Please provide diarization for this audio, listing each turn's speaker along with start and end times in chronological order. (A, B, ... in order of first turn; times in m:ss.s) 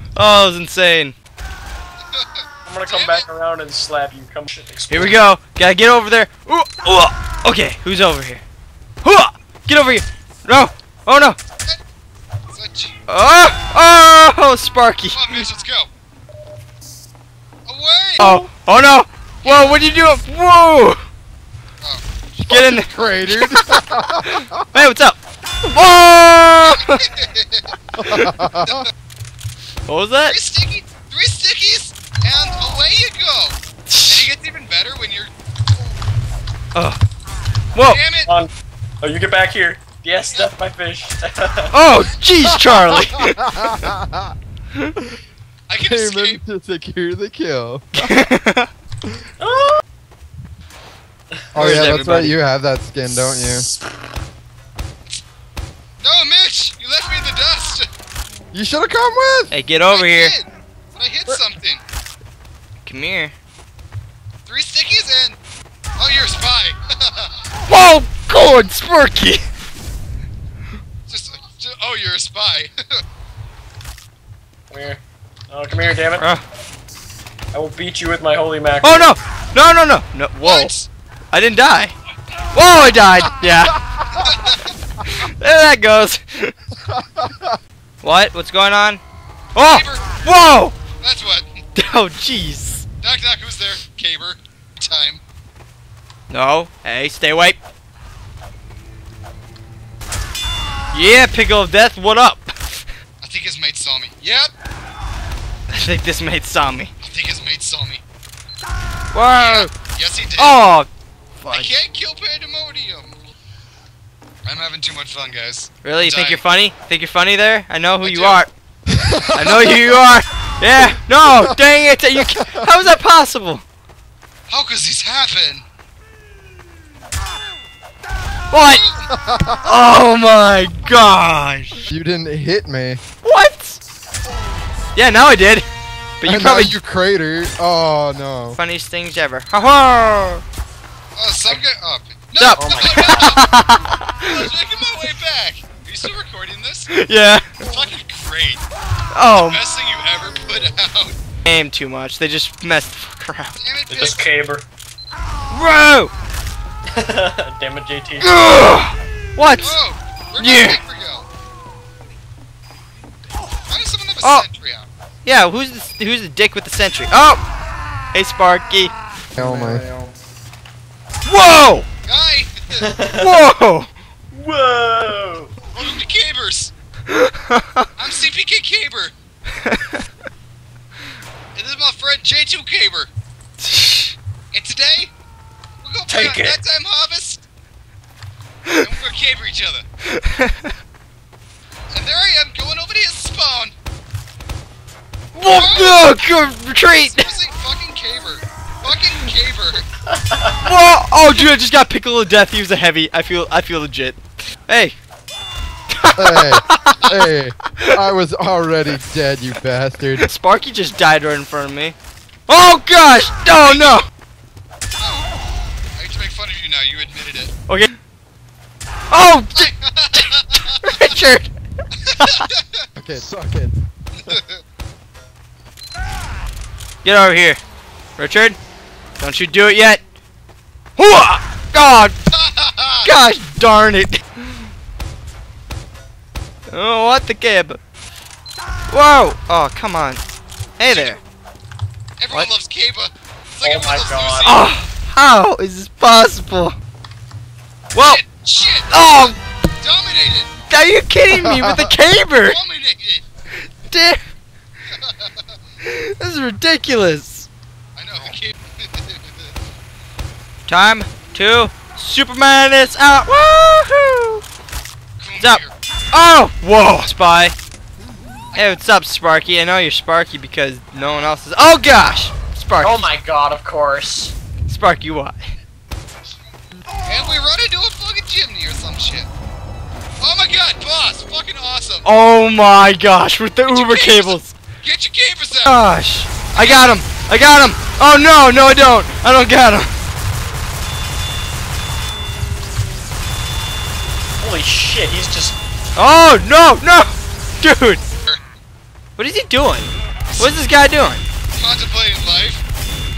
0:00.2-0:01.1 A
0:02.0-0:03.2 B
0:02.6-0:05.2 C
0:04.9-0:08.4 A
0:09.0-0:11.4 A
0:12.5-0:12.9 B
0:13.1-0:15.2 A
0:15.1-0:15.9 B
0:17.6-0:18.4 B
0:18.2-0:21.0 A
0:19.4-0:19.9 B
0:21.8-0:23.2 B
0:22.5-0:27.0 A
0:22.5-0:24.6 D
0:26.6-0:27.8 B
0:28.0-0:28.9 D
0:28.6-0:28.9 B
0:29.9-0:30.3 A
0:30.2-0:35.3 B
0:33.9-0:34.3 A
0:36.7-0:37.0 A
0:37.7-0:38.0 A
0:37.8-0:38.3 B
0:39.0-0:41.7 C
0:41.7-0:43.6 A
0:42.7-0:44.3 D
0:45.7-0:46.4 B
0:45.8-0:48.3 D
0:47.9-0:48.7 A
0:49.4-0:49.8 C
0:51.5-0:53.7 D
0:51.6-0:52.3 A
0:56.0-0:57.9 B
0:58.5-0:59.5 D
0:59.5-1:00.3 A
0:59.9-1:01.8 B
1:02.8-1:03.3 A
1:04.4-1:05.4 B
1:06.0-1:07.3 B
1:07.7-1:09.4 A
1:11.1-1:12.7 B
1:14.7-1:16.2 C
1:16.2-1:16.4 A
1:17.5-1:19.1 C
1:18.8-1:20.7 A
1:20.4-1:20.9 B
1:21.3-1:21.9 A
1:22.5-1:23.8 A
1:24.1-1:24.7 B
1:25.0-1:26.5 A
1:26.8-1:27.6 D
1:28.0-1:29.0 A
1:29.5-1:30.8 A
1:29.6-1:30.0 B
1:31.0-1:31.5 B
1:31.7-1:32.8 A
1:33.0-1:35.2 B
1:36.3-1:37.6 A
1:40.9-1:42.8 A
1:43.2-1:44.5 B
1:45.7-1:46.9 A
1:47.0-1:48.0 B
1:49.1-1:49.7 A
1:49.3-1:50.6 B
1:50.4-1:50.9 A
1:51.4-1:51.7 A
1:51.5-1:53.2 B
1:54.4-1:56.4 B
1:55.8-1:58.5 A
1:58.0-1:58.4 B
1:59.0-1:59.4 D
1:59.0-1:59.8 B
1:59.3-2:03.6 A
2:02.4-2:02.7 D
2:04.5-2:05.6 B
2:08.5-2:08.8 A
2:08.6-2:09.1 B
2:09.1-2:09.7 D
2:09.6-2:11.8 A
2:11.9-2:13.0 D
2:13.2-2:13.8 A
2:14.9-2:15.6 A
2:16.2-2:16.8 A
2:16.2-2:18.6 D
2:18.6-2:20.4 A
2:21.2-2:23.4 B
2:22.4-2:24.3 A
2:22.6-2:23.4 C
2:24.2-2:26.9 B
2:26.9-2:27.4 A
2:27.7-2:28.6 B
2:29.1-2:29.6 A
2:29.3-2:31.2 B
2:31.4-2:33.5 A
2:33.6-2:34.2 B
2:33.9-2:34.6 C
2:35.5-2:36.1 A
2:36.9-2:38.4 C
2:38.2-2:39.8 A
2:39.6-2:41.3 B
2:40.4-2:40.8 A
2:43.7-2:44.9 B
2:44.2-2:44.5 A
2:45.2-2:47.4 A
2:48.1-2:48.9 A
2:49.4-2:49.8 D
2:51.2-2:51.9 A
2:52.0-2:52.9 B
2:52.8-2:53.4 C
2:53.1-2:53.9 A
2:54.3-2:55.6 C
2:55.7-2:56.7 B
2:57.1-2:57.9 A
2:58.0-2:59.1 B
2:59.6-3:00.0 A
3:01.6-3:03.1 B
3:03.6-3:04.1 A
3:04.5-3:05.1 B
3:05.8-3:07.4 B
3:06.1-3:06.6 C
3:08.8-3:09.8 B
3:10.1-3:10.7 A
3:11.9-3:13.7 B
3:15.3-3:17.3 A
3:15.4-3:16.1 B
3:17.0-3:19.8 B
3:20.1-3:20.5 C
3:20.6-3:25.0 A
3:25.9-3:27.1 A
3:26.2-3:30.3 D
3:30.2-3:31.9 A
3:32.5-3:34.1 A
3:33.6-3:34.0 B
3:35.0-3:37.5 B
3:39.1-3:39.7 A
3:39.5-3:41.2 B
3:40.8-3:41.5 A
3:42.1-3:42.8 B
3:42.2-3:42.5 A
3:43.0-3:43.7 D
3:44.1-3:44.6 B
3:47.0-3:47.6 A
3:48.2-3:48.6 A
3:49.2-3:50.0 A
3:51.0-3:52.2 A
3:52.3-3:53.1 B
3:53.0-3:54.2 A
3:56.7-3:57.8 A
3:58.9-4:00.2 A
4:00.8-4:01.2 A
4:00.8-4:01.2 B
4:02.2-4:04.6 B
4:03.6-4:04.6 C
4:04.4-4:06.7 A
4:07.9-4:08.2 A
4:08.0-4:10.5 B
4:08.9-4:09.4 A
4:10.7-4:12.6 A
4:11.3-4:11.9 D
4:12.4-4:13.2 B
4:13.9-4:14.2 A
4:14.9-4:15.3 B
4:15.8-4:17.5 A
4:18.0-4:19.5 B
4:20.7-4:24.4 A
4:25.2-4:25.7 B
4:25.4-4:27.5 A
4:28.5-4:33.1 A
4:32.8-4:34.3 C
4:34.6-4:35.4 A
4:37.0-4:39.3 B
4:40.2-4:42.0 B
4:42.0-4:44.5 A
4:43.7-4:45.8 B
4:45.6-4:49.9 A
4:46.5-4:47.0 B
4:54.4-4:55.6 C
4:55.9-4:58.0 A
4:59.2-5:01.2 A
5:00.3-5:00.6 B
5:01.6-5:02.6 B